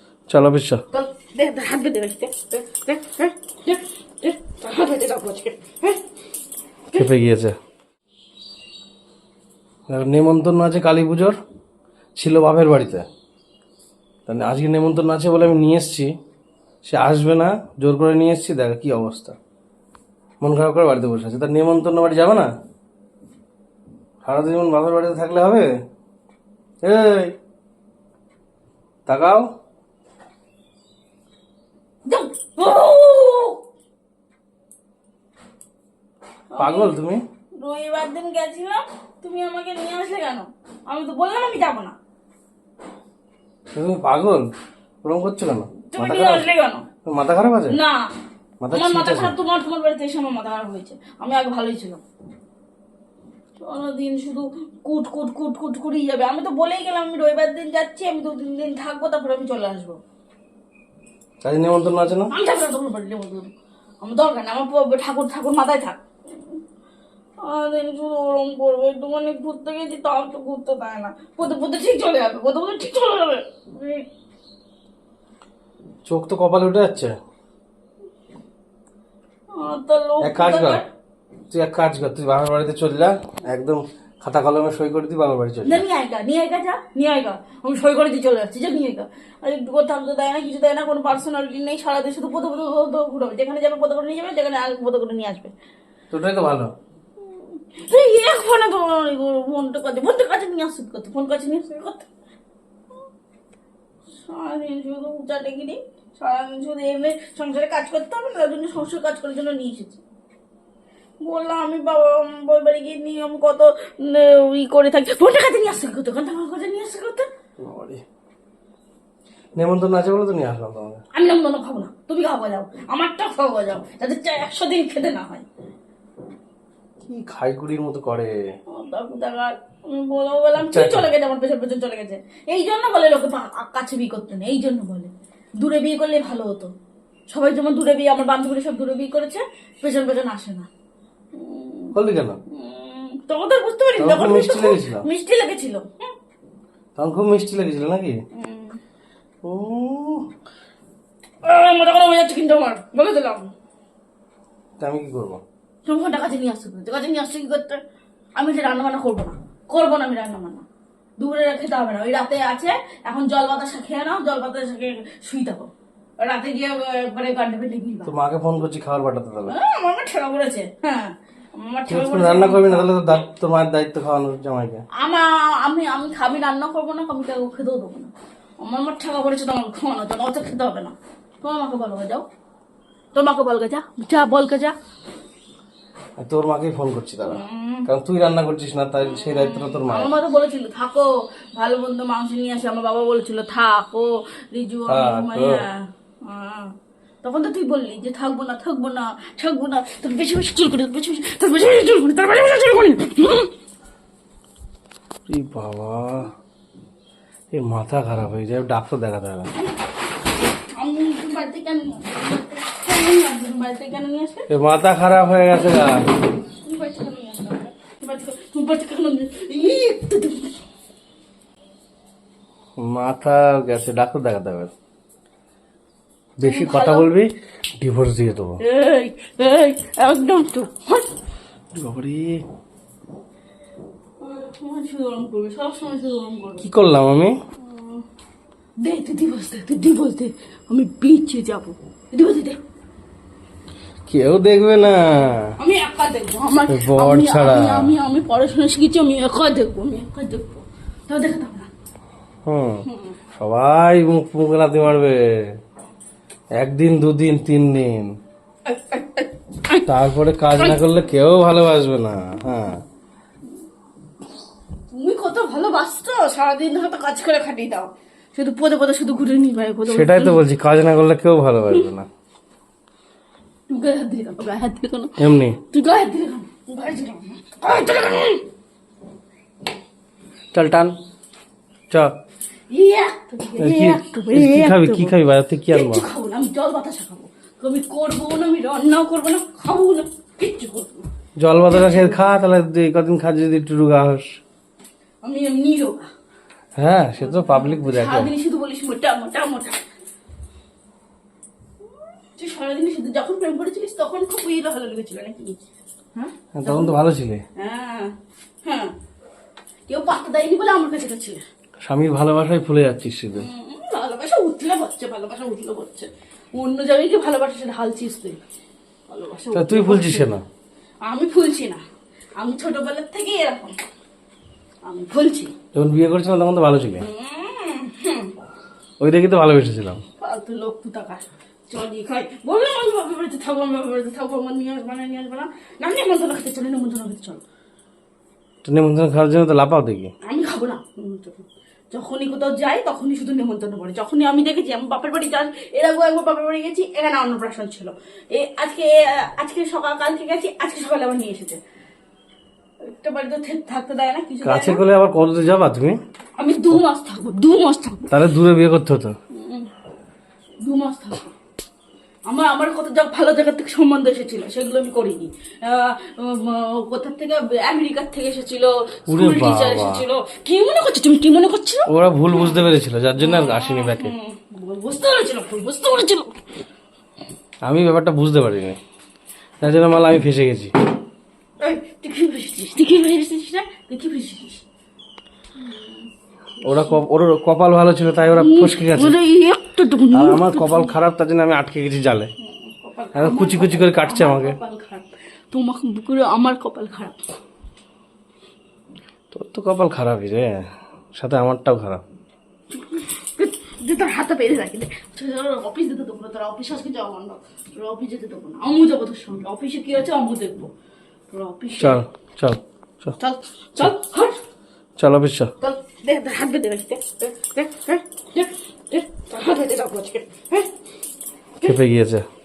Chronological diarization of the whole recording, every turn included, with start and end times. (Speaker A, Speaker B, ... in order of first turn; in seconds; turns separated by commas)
Speaker A: 0.3-0.8, Speaker B: 0.9-6.0, Speaker A: 6.9-7.5, Speaker A: 9.9-11.3, Speaker A: 12.1-13.1, Speaker A: 14.3-16.1, Speaker A: 16.8-19.4, Speaker A: 20.4-22.5, Speaker A: 24.2-25.7, Speaker A: 26.8-27.4, Speaker A: 29.1-29.4, Speaker B: 32.0-33.6, Speaker B: 36.5-37.0, Speaker A: 36.6-37.2, Speaker B: 37.6-42.0, Speaker A: 43.7-44.5, Speaker A: 45.0-46.5, Speaker B: 45.9-46.9, Speaker A: 47.0-47.8, Speaker B: 47.7-48.1, Speaker A: 48.6-49.4, Speaker B: 48.7-52.0, Speaker B: 53.6-60.0, Speaker A: 61.4-62.3, Speaker B: 62.3-66.0, Speaker B: 67.4-74.0, Speaker A: 76.0-77.1, Speaker B: 79.5-80.8, Speaker A: 80.2-80.8, Speaker A: 81.5-85.8, Speaker B: 85.6-95.5, Speaker A: 96.1-96.7, Speaker B: 97.2-102.1, Speaker B: 104.2-110.0, Speaker B: 111.2-117.3, Speaker A: 117.6-118.0, Speaker A: 119.5-121.0, Speaker B: 121.1-125.4, Speaker A: 127.0-128.3, Speaker B: 128.7-136.7, Speaker A: 130.6-131.1, Speaker B: 137.3-140.7, Speaker B: 141.3-141.9, Speaker A: 141.9-142.4, Speaker B: 142.5-145.9, Speaker A: 144.0-145.1, Speaker A: 146.9-148.2, Speaker B: 148.3-148.8, Speaker A: 149.4-150.3, Speaker B: 151.4-153.5, Speaker A: 154.8-155.4, Speaker B: 155.8-157.8, Speaker B: 158.3-160.6, Speaker B: 161.2-168.1, Speaker A: 168.1-169.5, Speaker B: 169.5-173.1, Speaker A: 171.9-174.8, Speaker B: 175.0-182.2, Speaker B: 183.1-184.7, Speaker A: 186.2-190.1, Speaker B: 187.2-187.9, Speaker B: 189.1-203.5, Speaker A: 194.9-195.6, Speaker A: 205.3-206.3, Speaker A: 207.5-209.5, Speaker B: 210.7-214.5, Speaker A: 214.5-216.1, Speaker B: 216.5-220.6, Speaker A: 222.8-224.7, Speaker A: 226.4-228.6, Speaker B: 226.4-227.1, Speaker B: 228.6-231.1, Speaker A: 231.7-232.4, Speaker B: 234.2-236.7, Speaker A: 236.6-237.4, Speaker B: 237.6-238.0, Speaker B: 238.8-242.6, Speaker A: 244.1-245.5, Speaker B: 245.6-251.7, Speaker A: 246.7-247.9, Speaker A: 252.4-252.8, Speaker B: 252.8-253.1, Speaker A: 253.4-255.6, Speaker A: 256.6-258.1, Speaker B: 258.7-259.9, Speaker A: 259.8-262.8, Speaker B: 264.9-270.4, Speaker A: 269.9-272.1, Speaker B: 273.7-278.4, Speaker A: 275.2-275.6, Speaker A: 280.5-280.9, Speaker B: 282.7-285.1, Speaker A: 283.6-286.1, Speaker B: 285.7-291.1, Speaker A: 291.4-294.3, Speaker B: 291.7-292.2, Speaker B: 295.2-296.1, Speaker A: 296.8-298.3, Speaker B: 297.2-299.8, Speaker B: 302.4-305.6, Speaker B: 306.1-306.9, Speaker A: 306.5-307.4, Speaker B: 307.6-308.9, Speaker B: 309.9-311.4, Speaker A: 311.8-313.5, Speaker B: 313.4-318.4, Speaker B: 319.1-320.4, Speaker A: 319.5-320.4, Speaker B: 321.1-321.8, Speaker B: 322.4-323.8, Speaker B: 324.8-325.5, Speaker A: 325.7-327.1, Speaker B: 327.0-328.3, Speaker A: 329.0-330.0, Speaker B: 330.2-337.4, Speaker A: 338.6-340.1, Speaker B: 340.2-351.6, Speaker B: 352.8-354.8, Speaker A: 354.4-356.0, Speaker B: 356.4-358.1, Speaker A: 358.1-359.1, Speaker B: 359.3-359.7, Speaker B: 360.6-361.3, Speaker B: 362.3-372.7, Speaker A: 369.1-370.0, Speaker A: 371.9-374.1, Speaker B: 373.2-376.4, Speaker A: 377.6-378.8, Speaker A: 379.6-380.7, Speaker B: 381.6-384.6, Speaker B: 385.6-386.1, Speaker B: 386.6-387.0, Speaker A: 386.6-389.2, Speaker B: 388.3-390.9, Speaker A: 390.1-392.3, Speaker B: 392.4-397.2, Speaker A: 393.1-394.6, Speaker A: 399.3-402.0, Speaker B: 402.8-410.7, Speaker B: 411.3-412.0, Speaker A: 411.8-413.1, Speaker B: 413.2-414.4, Speaker A: 415.0-415.5, Speaker B: 415.6-420.7, Speaker A: 421.6-422.2